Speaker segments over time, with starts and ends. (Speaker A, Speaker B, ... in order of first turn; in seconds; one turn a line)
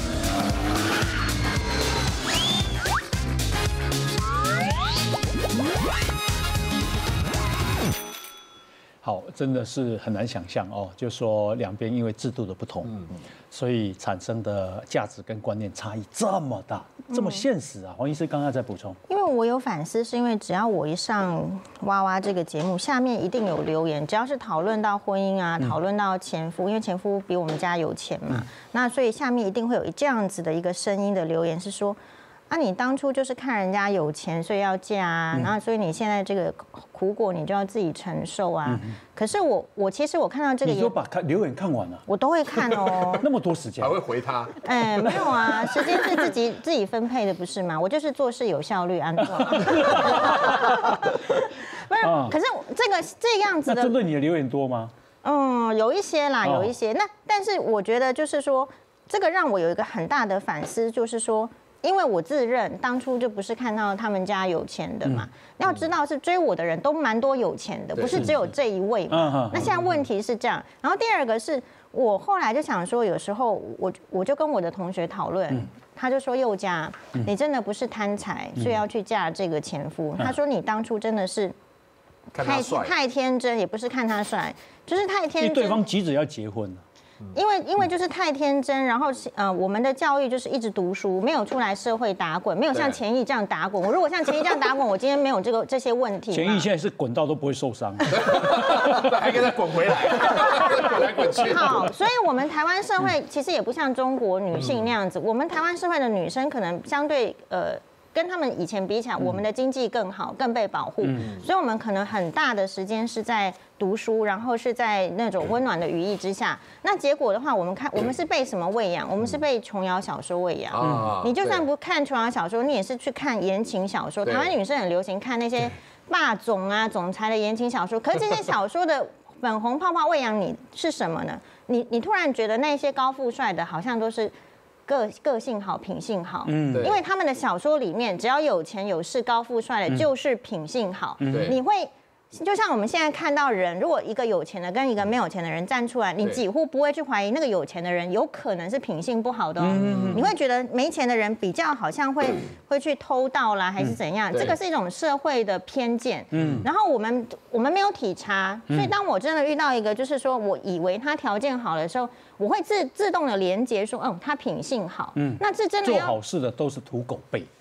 Speaker A: 9.0-19.0
Speaker B: 17.1-17.4
Speaker B: 19.1-32.0
Speaker B: 32.5-41.0
Speaker A: 38.7-39.0
Speaker A: 40.6-42.0
Speaker B: 42.1-43.3
Speaker A: 42.6-44.0
Speaker C: 43.8-44.6
Speaker B: 44.6-53.9
Speaker A: 45.1-46.0
Speaker A: 49.4-51.2
Speaker A: 52.0-52.4
Speaker A: 53.7-54.9
Speaker B: 55.2-81.5
Speaker A: 56.4-56.7
Speaker C: 68.0-68.5
Speaker A: 69.1-69.7
Speaker C: 69.6-70.0
Speaker A: 78.6-78.8
Speaker C: 82.3-82.9
Speaker B: 82.4-85.8
Speaker A: 85.4-86.8
Speaker B: 87.3-96.7
Speaker C: 92.7-93.0
Speaker A: 96.3-99.1
Speaker C: 98.1-101.9
Speaker B: 100.4-134.3
Speaker C: 104.5-104.9
Speaker A: 111.0-111.3
Speaker C: 120.7-121.7
Speaker A: 120.8-121.1
Speaker C: 124.2-124.6
Speaker B: 134.9-166.2
Speaker A: 136.5-136.9
Speaker C: 136.7-137.0
Speaker A: 141.2-141.5
Speaker C: 141.3-141.6
Speaker A: 149.6-150.2
Speaker C: 149.8-150.3
Speaker C: 154.3-154.6
Speaker A: 156.3-156.7
Speaker C: 156.3-156.6
Speaker A: 165.2-167.5